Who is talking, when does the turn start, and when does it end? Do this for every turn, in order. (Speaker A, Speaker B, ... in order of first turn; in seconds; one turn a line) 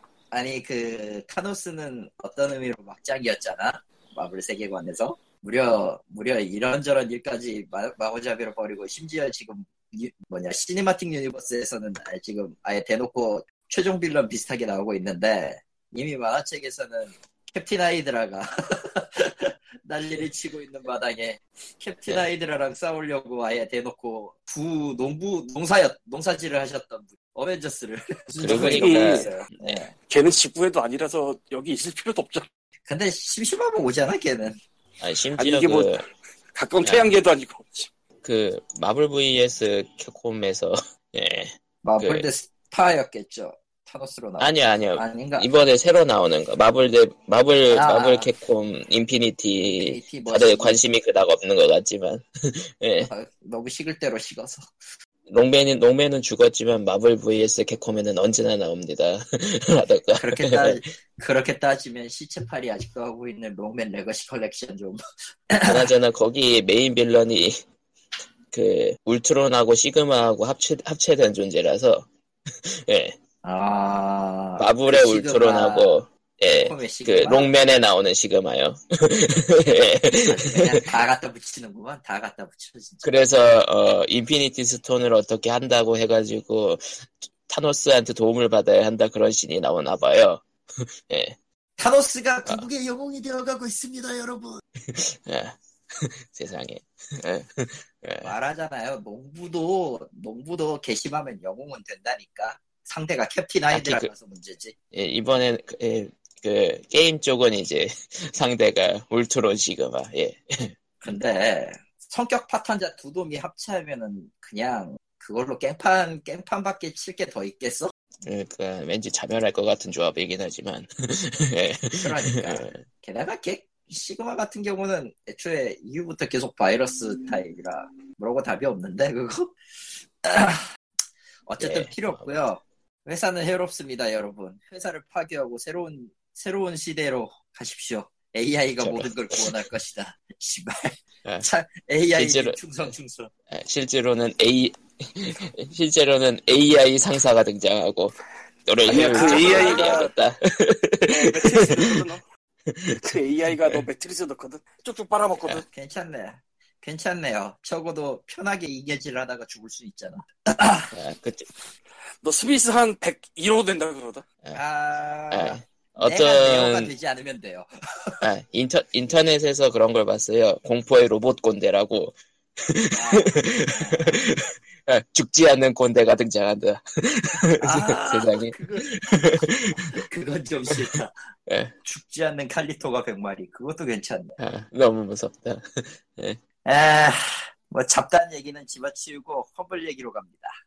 Speaker A: 0.3-29.9
Speaker B: 28.3-29.4
Speaker C: 28.4-29.8
Speaker B: 30.1-32.5
Speaker A: 32.9-34.6
Speaker C: 35.0-36.0
Speaker B: 35.4-37.9
Speaker C: 36.8-37.2
Speaker C: 38.2-42.3
Speaker A: 41.8-45.5
Speaker C: 44.4-53.1
Speaker A: 47.7-48.3
Speaker A: 49.8-50.8
Speaker A: 53.1-54.7
Speaker C: 55.3-60.8
Speaker A: 60.2-65.9
Speaker C: 65.7-67.6
Speaker C: 68.5-72.1
Speaker C: 72.7-73.2
Speaker A: 73.4-76.0
Speaker C: 74.6-80.9
Speaker A: 76.5-77.5
Speaker A: 80.2-83.2
Speaker C: 83.0-91.4
Speaker A: 91.8-94.6
Speaker C: 94.9-98.3
Speaker A: 98.2-104.7
Speaker C: 103.7-104.1
Speaker C: 104.9-111.1
Speaker A: 111.0-117.9
Speaker C: 118.3-122.8
Speaker A: 122.0-129.5
Speaker A: 130.2-130.7
Speaker A: 131.5-143.3
Speaker C: 131.6-132.3
Speaker C: 138.8-139.7
Speaker C: 142.2-142.9
Speaker C: 143.5-148.2
Speaker C: 148.7-152.0
Speaker B: 148.9-150.1
Speaker A: 148.9-150.1
Speaker B: 151.1-152.2
Speaker C: 152.7-153.8
Speaker B: 153.0-155.7
Speaker A: 155.7-160.9
Speaker C: 160.9-161.5
Speaker B: 162.2-164.2
Speaker A: 164.6-168.2
Speaker C: 165.3-166.9
Speaker C: 168.2-179.9
Speaker A: 172.9-174.3
Speaker A: 177.6-179.0
Speaker A: 179.9-181.1
Speaker C: 181.5-181.7
Speaker A: 181.8-184.4
Speaker C: 184.4-186.4
Speaker A: 186.7-190.5